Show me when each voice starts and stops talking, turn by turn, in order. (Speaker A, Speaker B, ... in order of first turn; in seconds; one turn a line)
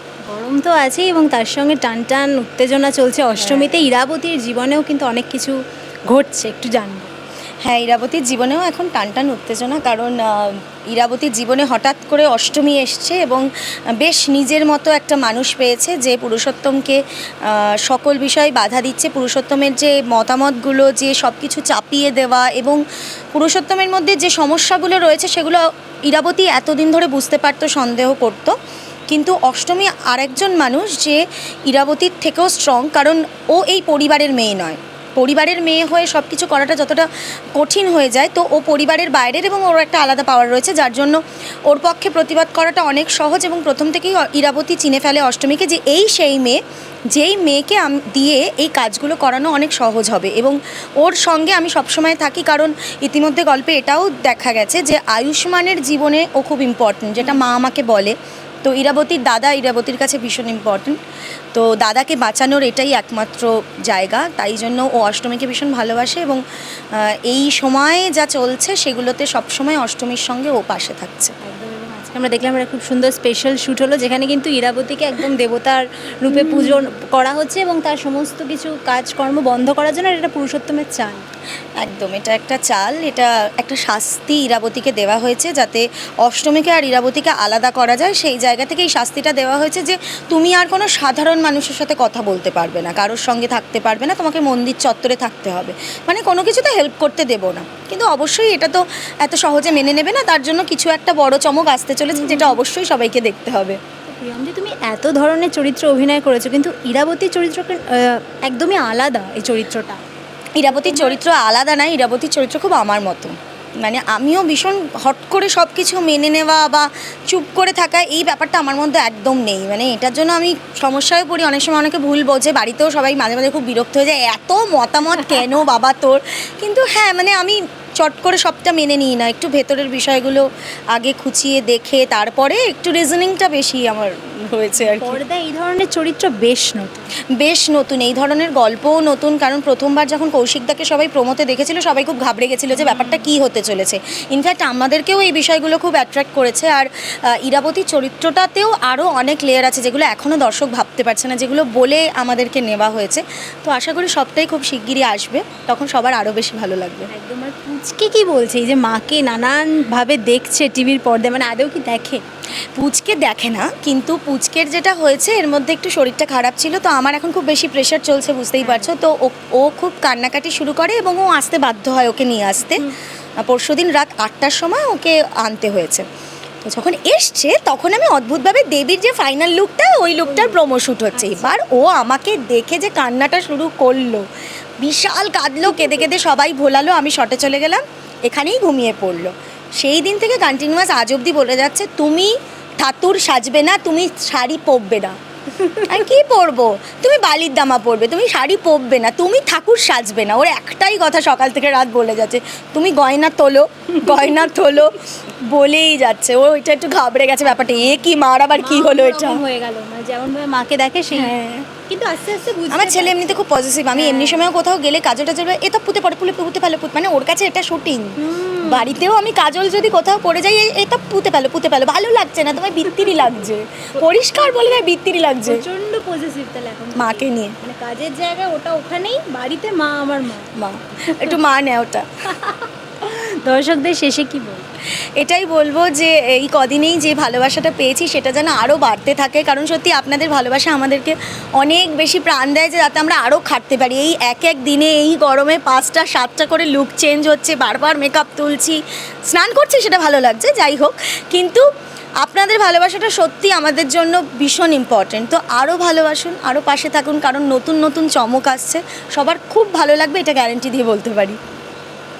Speaker A: 0.3-7.1
Speaker B: 3.3-3.9
Speaker B: 7.6-13.4
Speaker B: 14.0-22.8
Speaker B: 23.3-28.5
Speaker B: 29.1-61.0
Speaker B: 61.5-66.4
Speaker B: 66.9-71.3
Speaker A: 71.4-81.2
Speaker B: 76.3-76.8
Speaker B: 81.8-103.8
Speaker A: 102.1-102.6
Speaker A: 104.0-110.0
Speaker B: 110.6-135.2
Speaker A: 110.7-111.2
Speaker A: 134.8-137.0
Speaker B: 137.4-157.1
Speaker A: 142.7-143.3
Speaker A: 157.1-162.2
Speaker B: 162.8-172.9
Speaker A: 168.6-168.9
Speaker B: 173.4-176.0
Speaker B: 176.7-184.2
Speaker A: 180.2-180.6
Speaker A: 181.1-181.6
Speaker B: 184.8-195.2
Speaker A: 185.7-186.0
Speaker A: 195.5-196.1
Speaker B: 195.9-209.4
Speaker A: 204.1-204.4
Speaker A: 207.4-208.0
Speaker A: 208.6-211.3
Speaker B: 211.1-211.7
Speaker A: 211.9-213.4
Speaker B: 212.7-225.6
Speaker A: 213.9-214.5
Speaker A: 218.2-218.9
Speaker A: 222.8-223.3
Speaker A: 224.0-224.8
Speaker A: 225.5-230.5
Speaker B: 226.9-227.6
Speaker B: 230.6-232.1
Speaker A: 231.1-231.3
Speaker A: 232.4-234.7
Speaker B: 235.2-251.6
Speaker B: 252.2-261.4